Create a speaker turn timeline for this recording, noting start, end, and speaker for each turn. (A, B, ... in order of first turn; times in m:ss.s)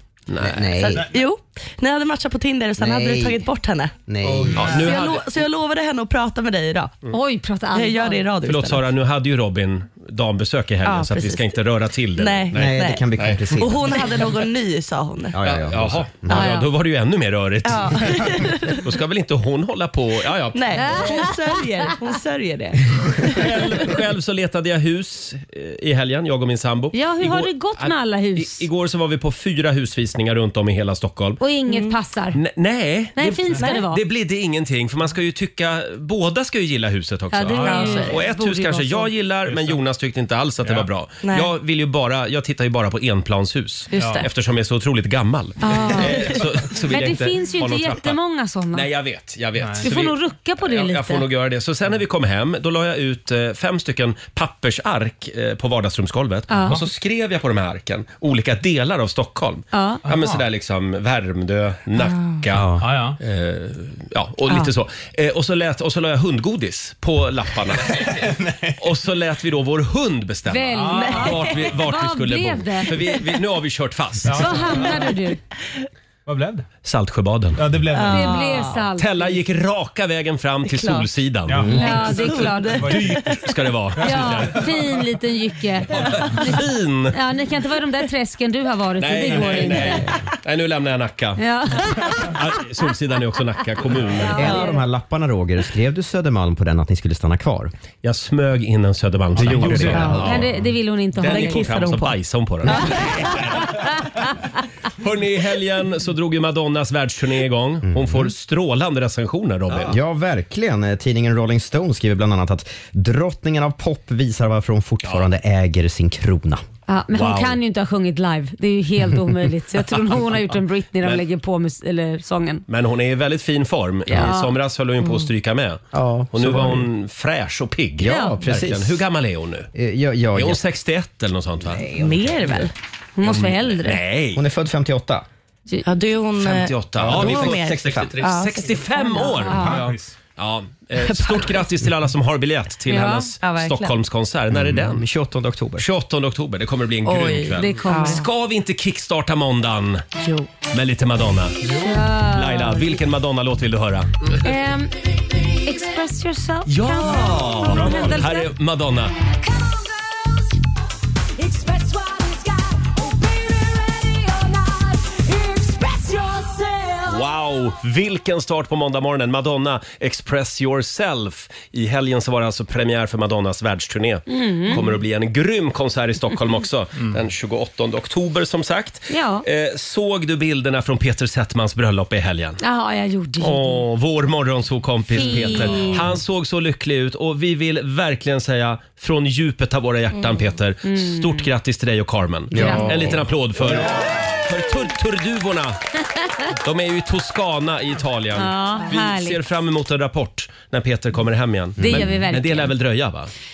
0:00.3-0:00.8 A
0:00.4-0:01.1 B
0:00.8-0:03.9 C
0:02.8-0:03.4 B
0:04.1-0:04.8 B
0:04.2-0:04.7 D
0:04.5-0:05.2 A
0:04.7-0:07.0 C
0:07.1-0:08.2 E
0:07.7-0:08.8 C
0:08.4-0:13.6 A
0:10.8-0:11.5 C
0:12.2-0:15.4 C
0:12.5-0:13.9 B
0:15.3-0:16.5 B
0:15.4-0:21.0 A
0:16.3-0:16.7 E
0:17.6-0:18.8 C
0:20.5-0:23.9 C
0:20.7-0:21.9 E
0:23.2-0:31.4 A
0:26.9-0:28.6 E
0:31.4-0:32.4 E
0:31.7-0:32.0 C
0:32.3-0:48.2 A
0:33.2-0:34.0 E
0:37.3-0:39.1 E
0:37.6-0:38.2 C
0:39.5-0:39.8 D
0:40.6-0:40.9 D
0:41.2-0:41.5 C
0:43.9-0:44.3 C
0:44.0-0:44.2 D
0:45.6-0:48.9 E
0:45.7-0:46.4 C
0:48.7-1:14.9 A
0:49.6-0:49.9 D
0:49.8-0:51.3 E
0:56.5-0:56.8 E
0:59.7-1:00.0 E
1:00.0-1:00.4 D
1:02.5-1:02.8 B
1:02.8-1:03.2 D
1:07.9-1:08.8 D
1:10.5-1:12.9 E
1:10.8-1:11.3 D
1:11.1-1:11.5 C
1:14.2-1:15.1 D
1:14.3-1:15.4 E
1:16.2-1:16.6 D
1:16.8-1:17.6 A
1:17.6-1:18.4 D
1:17.9-1:18.8 C
1:18.0-1:19.4 E
1:19.0-1:21.7 A
1:20.6-1:21.1 C
1:21.5-1:23.4 D
1:21.6-1:21.9 B
1:21.6-1:23.4 C
1:21.7-1:23.0 E
1:22.9-1:24.7 A
1:23.9-1:24.9 D
1:24.0-1:30.0 E
1:25.9-1:27.2 A
1:29.0-1:31.4 A
1:31.4-1:32.4 E
1:32.3-1:34.6 A
1:34.2-1:34.8 E
1:34.3-1:37.7 B
1:34.4-1:34.7 C
1:38.0-1:40.6 A
1:39.4-1:40.2 D
1:39.4-1:40.4 B
1:39.9-1:40.3 C
1:40.2-1:41.8 E
1:41.2-1:44.3 A
1:41.2-1:42.2 C
1:45.0-1:50.0 A
1:47.8-1:48.3 B
1:49.8-1:56.6 B
1:56.9-2:02.6 E
1:57.1-1:57.6 A
2:02.7-2:09.7 A
2:04.1-2:04.5 E
2:05.0-2:05.3 C
2:05.9-2:06.9 B
2:08.0-2:09.0 B
2:08.0-2:08.4 E
2:09.7-2:10.6 B
2:10.3-2:11.8 A
2:11.7-2:12.7 B
2:11.9-2:12.7 C
2:13.2-2:14.0 E
2:13.2-2:14.4 A
2:14.3-2:15.2 B
2:15.8-2:19.8 C
2:16.4-2:25.0 A
2:17.1-2:18.1 B
2:19.4-2:20.1 D
2:21.0-2:21.8 C
2:22.9-2:23.3 E
2:23.4-2:23.9 C
2:24.5-2:25.8 B
2:25.8-2:30.0 A
2:27.0-2:28.2 C
2:27.6-2:28.2 E
2:30.2-2:30.5 C
2:30.7-2:34.1 A
2:31.6-2:33.0 E
2:34.4-2:34.9 E
2:35.6-2:38.5 E
2:36.7-2:39.1 A
2:39.4-2:40.6 F
2:41.4-2:47.3 F
2:47.0-3:02.6 A
2:54.3-2:54.8 E
2:59.1-2:59.4 E
3:02.6-3:03.8 E
3:03.4-3:15.8 A
3:05.1-3:06.0 E
3:10.8-3:11.5 E
3:12.5-3:14.0 B
3:12.6-3:13.0 E
3:16.5-3:23.3 A
3:18.4-3:19.4 E
3:21.8-3:22.2 B
3:21.8-3:22.7 E